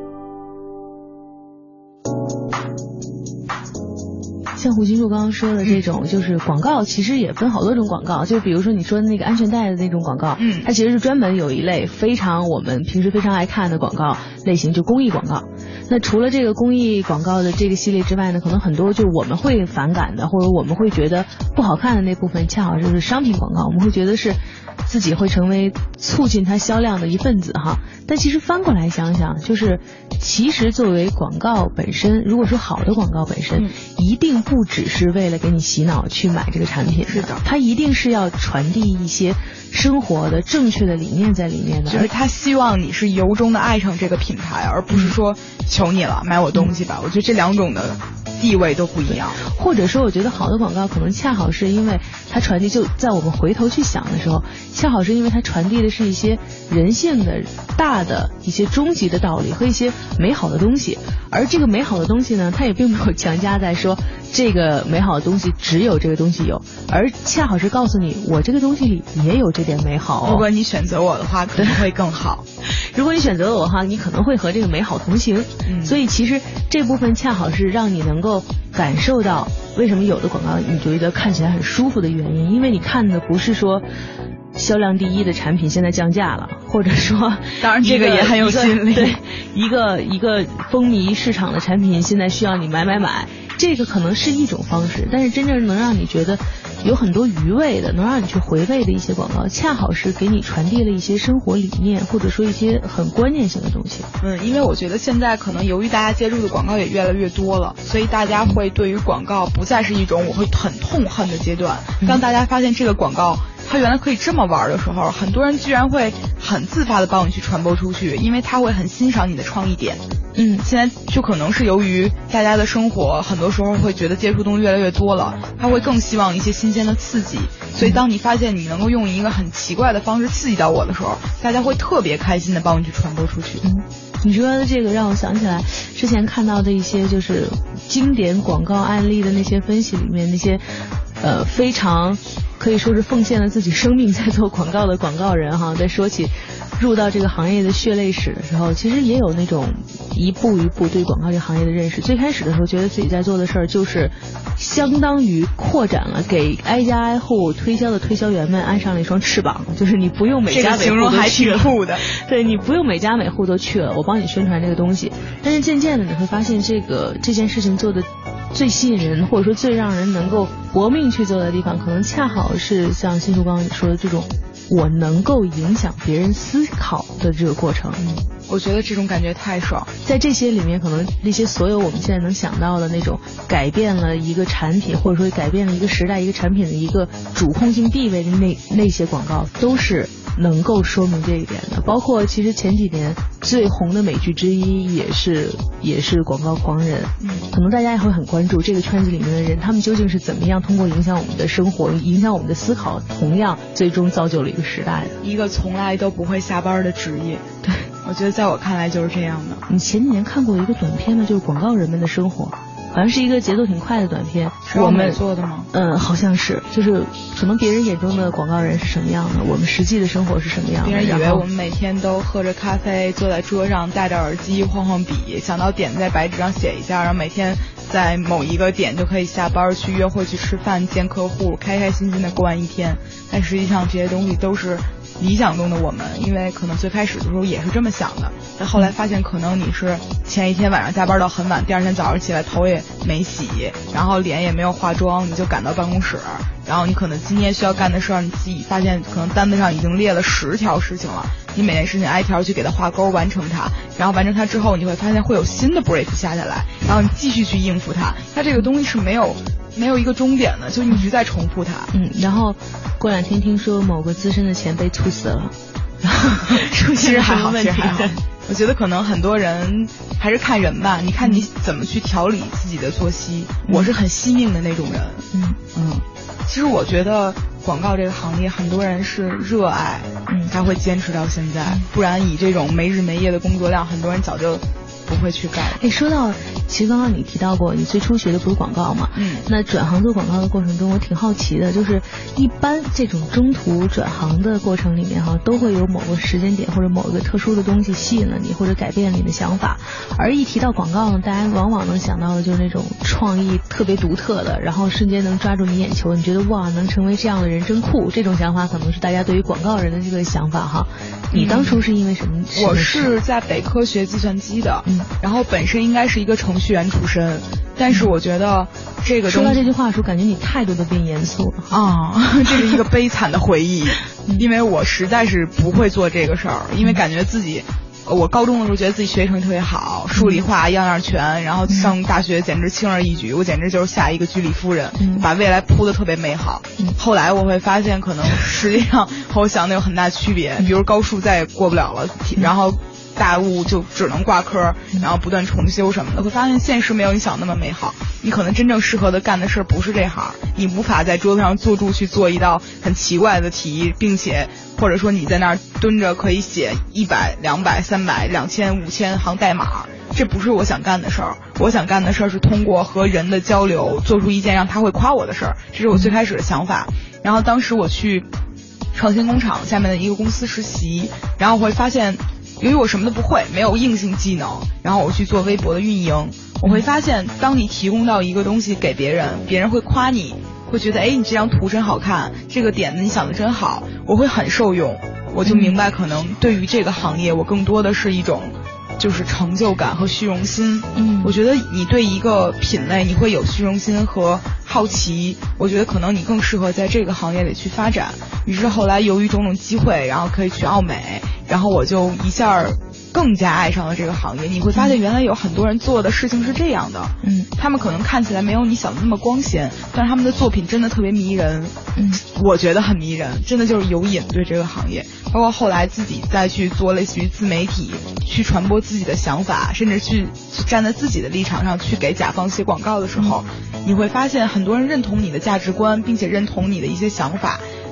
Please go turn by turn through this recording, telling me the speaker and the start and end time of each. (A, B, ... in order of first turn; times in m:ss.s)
0:04.6-0:42.1 A
0:10.4-0:10.7 B
0:37.0-0:37.4 B
0:41.9-0:49.4 B
0:49.4-1:10.4 A
1:10.2-1:12.4 B
1:12.7-1:23.9 A
1:15.6-1:16.0 B
1:24.5-1:44.1 A
1:27.6-1:29.2 B
1:44.2-2:00.0 B
2:00.4-2:00.6 A
2:00.6-2:13.6 B
2:13.6-2:58.1 A
2:40.5-2:42.0 B
2:58.0-2:59.9 B
3:00.0-3:25.2 A
3:17.2-3:17.5 B
3:25.2-3:27.4 B
3:28.0-3:29.6 B
3:29.7-3:35.2 A
3:34.7-3:35.7 B
3:35.7-3:41.4 A
3:40.8-4:21.9 B
4:21.9-4:28.2 A
4:26.4-4:45.8 B
4:33.6-4:33.9 A
4:35.3-4:35.6 A
4:45.7-5:13.1 A
4:49.1-4:49.4 B
5:11.3-5:11.8 B
5:12.5-5:19.7 B
5:19.3-5:21.8 A
5:21.7-6:08.3 B
5:30.1-5:30.4 A
5:31.7-5:31.9 A
5:35.0-5:35.2 A
6:08.9-7:07.6 B
6:25.4-6:25.8 A
6:30.9-6:31.4 A
6:47.2-6:47.5 A
6:52.0-6:52.2 A